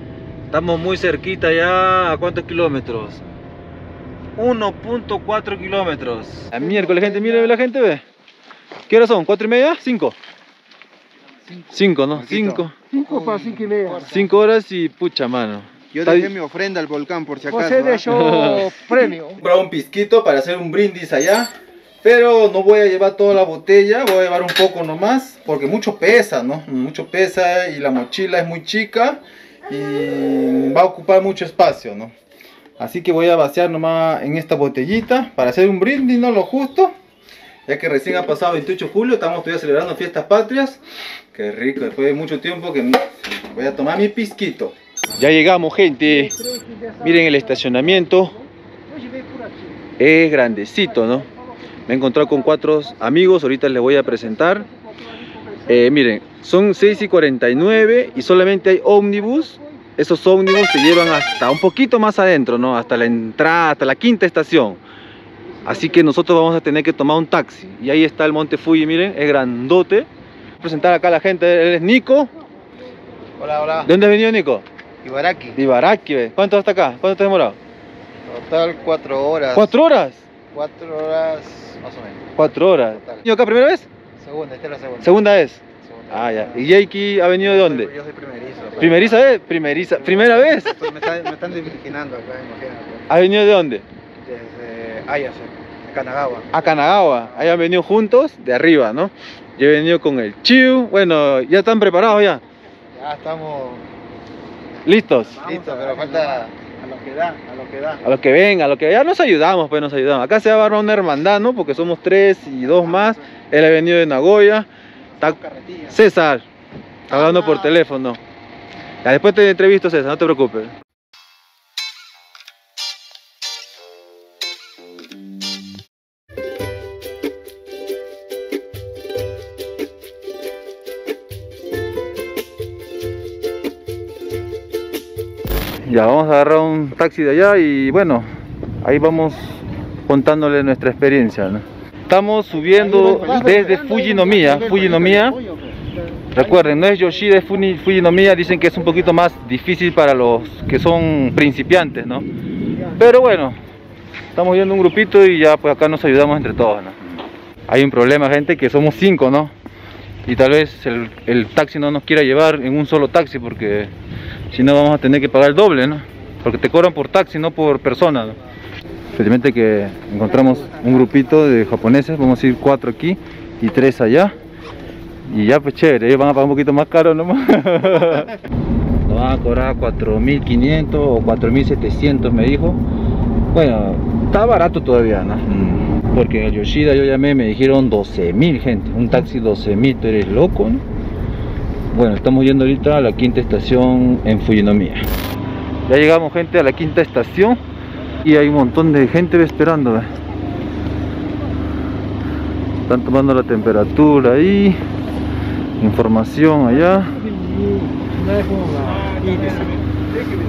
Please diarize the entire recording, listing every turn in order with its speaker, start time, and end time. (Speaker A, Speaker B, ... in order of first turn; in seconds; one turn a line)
Speaker A: 0.5-3.2
Speaker A: 4.3-8.0
Speaker B: 6.7-7.2
Speaker A: 8.9-10.2
Speaker A: 11.7-12.7
Speaker C: 12.1-12.6
Speaker B: 12.9-14.1
Speaker C: 13.2-13.9
Speaker A: 14.0-16.3
Speaker C: 15.9-18.2
Speaker B: 17.5-19.4
Speaker A: 18.1-18.7
Speaker A: 19.4-21.5
Speaker A: 22.0-32.1
Speaker A: 32.8-36.9
Speaker A: 37.7-40.8
Speaker A: 41.3-46.3
Speaker B: 46.1-47.0
Speaker A: 47.0-48.4
Speaker A: 50.0-51.3
Speaker A: 51.9-54.7
Speaker A: 55.7-64.8
Speaker A: 65.6-70.1
Speaker A: 70.6-72.3
Speaker C: 73.4-73.9
Speaker A: 73.8-74.6
Speaker C: 75.0-75.6
Speaker A: 75.5-77.6
Speaker C: 78.3-79.7
Speaker A: 79.5-80.2
Speaker C: 80.5-82.4
Speaker A: 82.3-83.9
Speaker C: 84.2-86.7
Speaker A: 85.0-87.9
Speaker C: 87.4-89.1
Speaker A: 88.8-90.9
Speaker C: 90.2-93.0
Speaker A: 93.1-93.9
Speaker C: 94.2-96.6
Speaker A: 96.5-102.4
Speaker C: 103.0-103.8
Speaker A: 104.8-105.5
Speaker C: 105.3-108.0
Speaker A: 108.0-114.7
Speaker C: 115.2-116.0
Speaker A: 115.9-116.4
Speaker A: 117.1-118.2
Speaker A: 119.0-120.7
Speaker A: 135.8-138.3
Speaker A: 138.8-145.4
Speaker C: 142.7-145.7
Speaker A: 146.3-152.2
Speaker A: 152.9-153.6
Speaker A: 154.3-157.0
Speaker A: 157.7-159.5
Speaker A: 160.2-163.9
Speaker A: 164.5-168.4
Speaker A: 169.1-174.3
Speaker A: 175.2-178.3
Speaker A: 179.1-182.8
Speaker A: 183.5-190.8
Speaker A: 191.9-195.1
Speaker A: 195.9-197.6
Speaker A: 198.2-200.1
Speaker A: 202.9-204.8
Speaker A: 205.8-207.2
Speaker B: 207.2-209.7